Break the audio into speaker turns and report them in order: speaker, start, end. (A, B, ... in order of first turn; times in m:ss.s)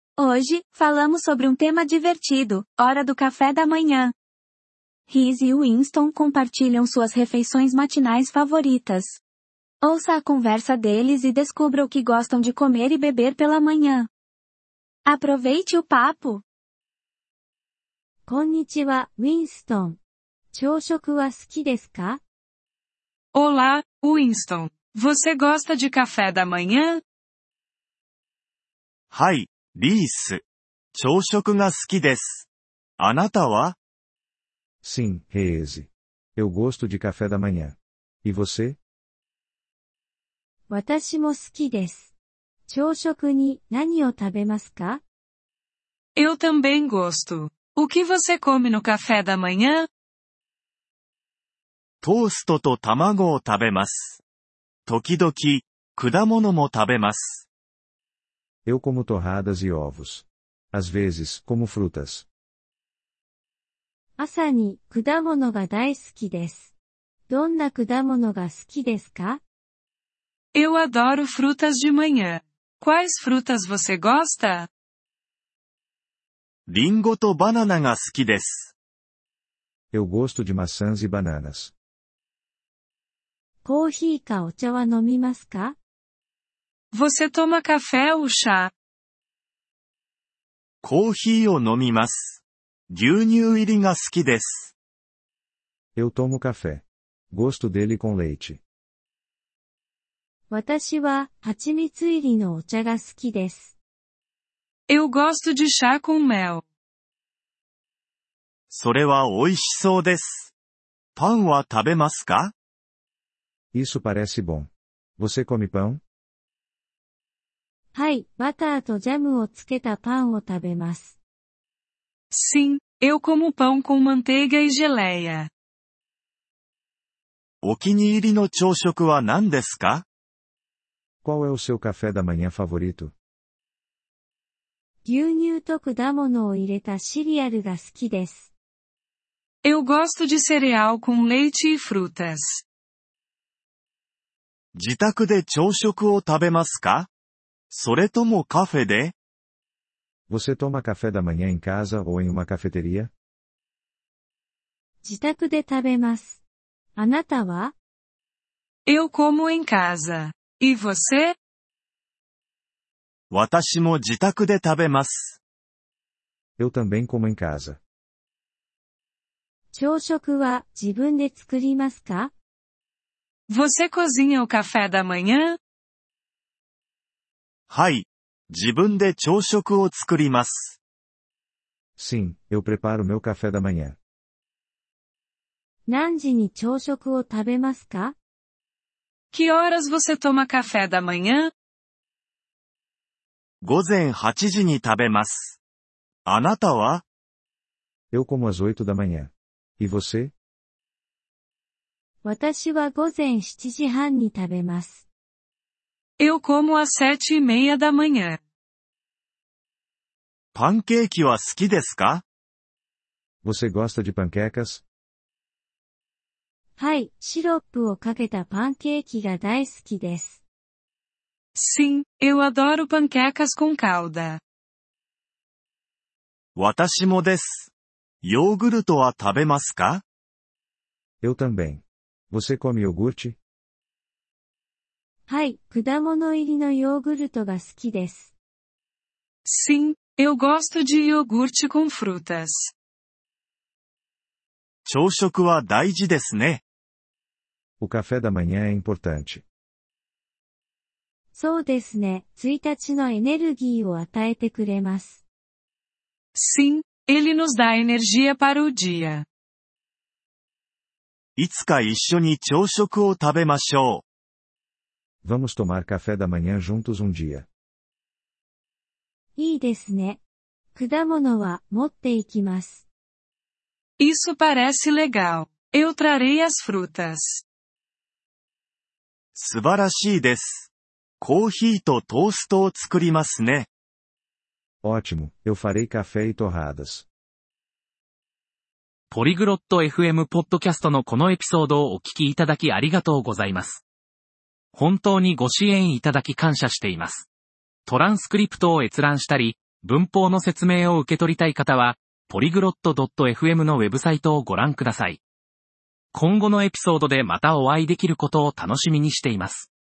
0:00.2-0:04.1 A
0:05.1-0:09.2 A
0:09.8-0:14.1 A
0:15.0-0:16.4 A
0:18.2-0:20.0 B
0:20.5-0:22.2 B
0:23.3-0:27.0 C
0:29.1-0:30.4 D
0:30.9-0:32.5 D
0:33.0-0:33.8 D
0:34.8-0:38.8 E
0:40.7-0:42.1 B
0:42.7-0:45.0 B
0:46.2-0:49.9 C
0:52.0-0:54.2 D
0:54.9-0:57.5 D
0:58.6-1:02.3 E
1:04.2-1:06.7 B
1:07.3-1:09.4 B
1:10.5-1:14.7 C
1:16.7-1:18.7 D
1:19.9-1:21.7 E
1:23.6-1:25.8 B
1:26.9-1:28.7 C
1:30.8-1:34.7 D
1:36.0-1:38.6 E
1:40.5-1:43.8 B
1:44.9-1:46.6 C
1:48.7-1:50.5 D
1:51.2-1:52.5 D
1:53.7-1:56.0 E
1:57.9-2:01.2 B
2:02.3-2:05.5 C
2:07.6-2:10.0 D
2:11.2-2:13.1 E
2:15.0-2:18.5 B
2:19.6-2:22.6 C
2:24.7-2:27.1 D
2:27.7-2:29.1 D
2:30.3-2:33.1 E
2:35.0-2:36.4 B
2:37.0-2:37.7 B
2:38.8-2:41.4 C
2:43.3-2:45.4 D
2:46.6-2:47.8 E
2:49.7-2:52.3 B
2:53.5-2:55.6 C
2:57.7-3:00.8 D
3:02.0-3:04.0 E
3:05.9-3:08.2 B
3:09.3-3:11.5 C
3:13.6-3:15.6 D
3:16.2-3:17.0 D
3:18.1-3:20.3 E
3:22.2-3:25.0 B
3:26.2-3:28.4 C
3:30.5-3:32.2 D
3:33.4-3:34.8 E
3:36.8-3:40.4 B
3:41.6-3:44.4 C
3:46.6-3:47.7 D
3:48.2-3:50.0 D
3:51.2-3:53.4 E
3:55.3-3:58.3 B
3:59.5-4:02.7 C
4:04.8-4:06.6 D
4:07.8-4:09.4 E
4:11.3-4:15.2 B
4:16.4-4:19.2 C
4:21.4-4:24.0 D
4:25.2-4:27.4 E
4:29.4-4:30.2 B
4:30.7-4:32.8 B
4:34.0-4:37.4 C
4:39.3-4:43.7 D
4:44.8-4:47.1 E
4:49.1-4:53.8 F
4:54.7-4:57.3 F
4:57.8-5:05.2 F
5:06.1-5:09.7 F